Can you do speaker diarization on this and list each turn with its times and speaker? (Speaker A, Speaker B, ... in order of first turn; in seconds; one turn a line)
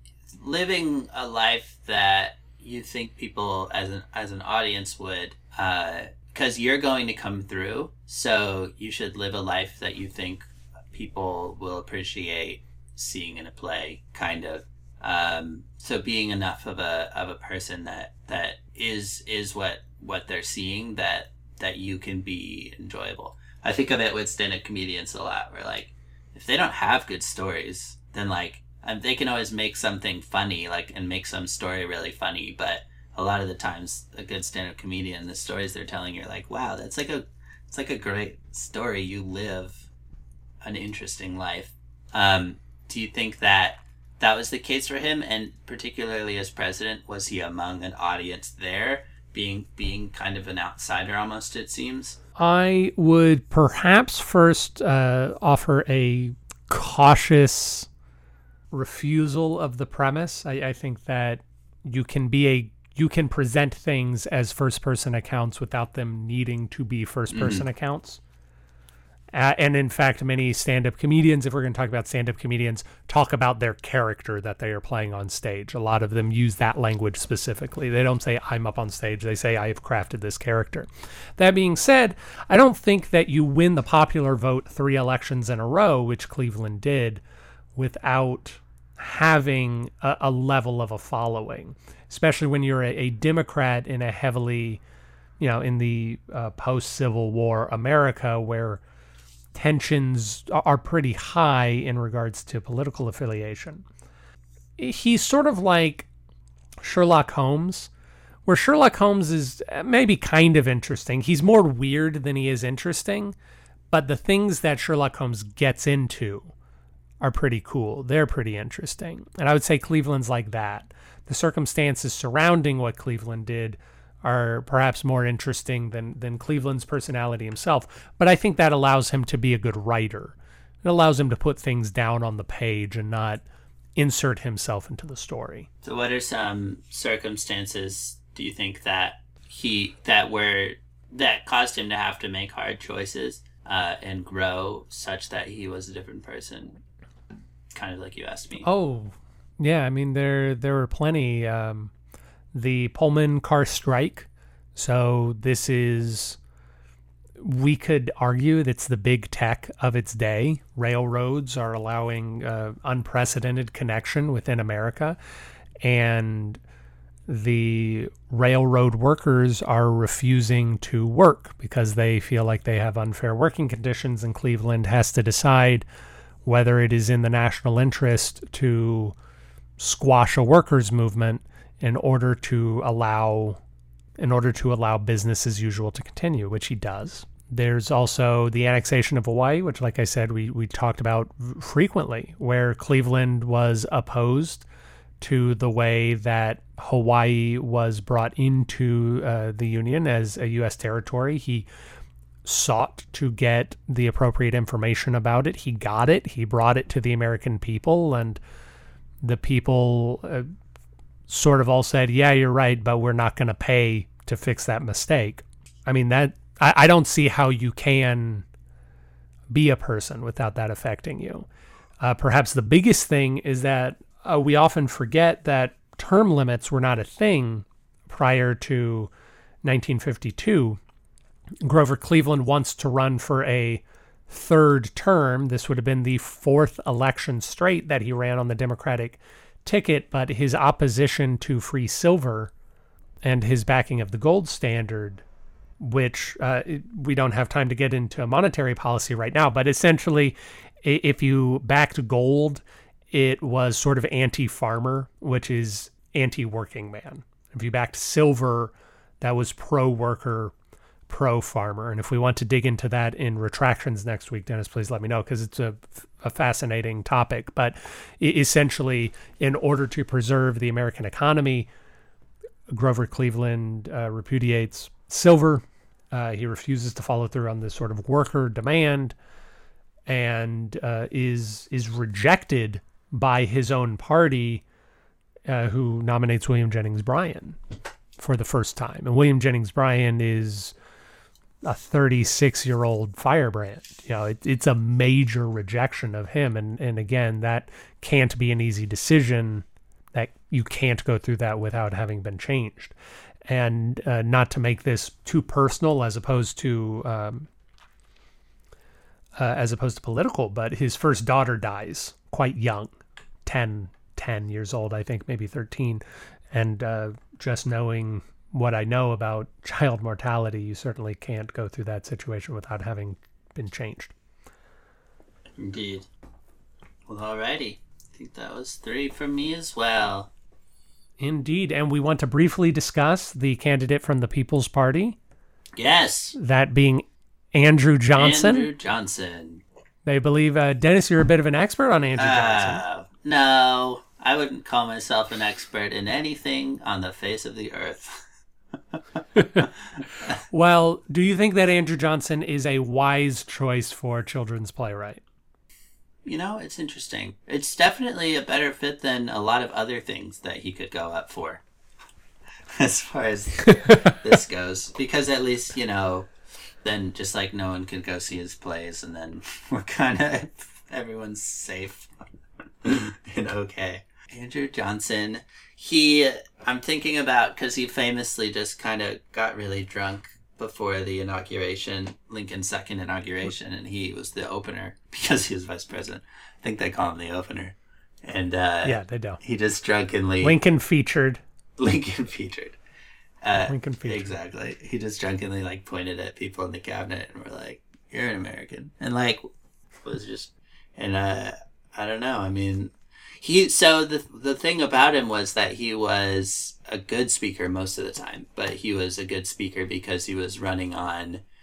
Speaker A: 0.3-39.9
Speaker A: 40.6-52.2
Speaker B: 52.4-57.9
Speaker B: 58.7-68.2
Speaker A: 67.3-67.7
Speaker B: 69.3-87.2
Speaker B: 87.8-94.8
Speaker B: 95.4-98.8
Speaker B: 99.5-103.8
Speaker B: 104.8-106.1
Speaker B: 106.8-107.9
Speaker B: 108.5-113.3
Speaker B: 113.9-116.5
Speaker B: 117.2-133.4
Speaker B: 133.9-135.7
Speaker A: 135.8-146.8
Speaker A: 147.7-148.7
Speaker B: 148.6-151.9
Speaker B: 152.5-156.4
Speaker B: 157.4-165.2
Speaker B: 165.8-166.6
Speaker B: 167.3-175.8
Speaker B: 176.4-179.1
Speaker B: 179.8-183.6
Speaker B: 184.2-194.7
Speaker B: 195.2-201.7
Speaker B: 202.4-208.4
Speaker B: 209.2-210.5
Speaker B: 211.3-218.4
Speaker B: 219.5-221.4
Speaker B: 222.0-229.1
Speaker B: 229.6-230.8
Speaker B: 231.6-242.5
Speaker B: 243.2-245.2
Speaker B: 245.8-260.5
Speaker B: 261.1-271.7
Speaker B: 272.7-279.1
Speaker B: 280.1-284.6
Speaker B: 285.5-287.6
Speaker B: 288.2-290.7
Speaker B: 291.6-302.9
Speaker B: 303.5-307.5
Speaker B: 309.4-312.9
Speaker B: 313.4-324.1
Speaker A: 325.6-326.1
Speaker A: 327.1-330.3
Speaker B: 331.2-335.2
Speaker A: 335.8-336.4
Speaker B: 336.4-338.7
Speaker A: 338.2-339.6
Speaker B: 340.0-342.8
Speaker A: 342.2-348.2
Speaker B: 349.4-349.6
Speaker B: 350.5-355.2
Speaker A: 356.2-361.6
Speaker A: 362.7-366.3
Speaker B: 363.7-364.1
Speaker A: 366.8-372.1
Speaker A: 372.8-390.6
Speaker B: 388.8-389.4
Speaker B: 390.4-391.4
Speaker A: 391.8-392.8
Speaker A: 393.4-399.4
Speaker B: 393.6-394.3
Speaker A: 400.0-411.4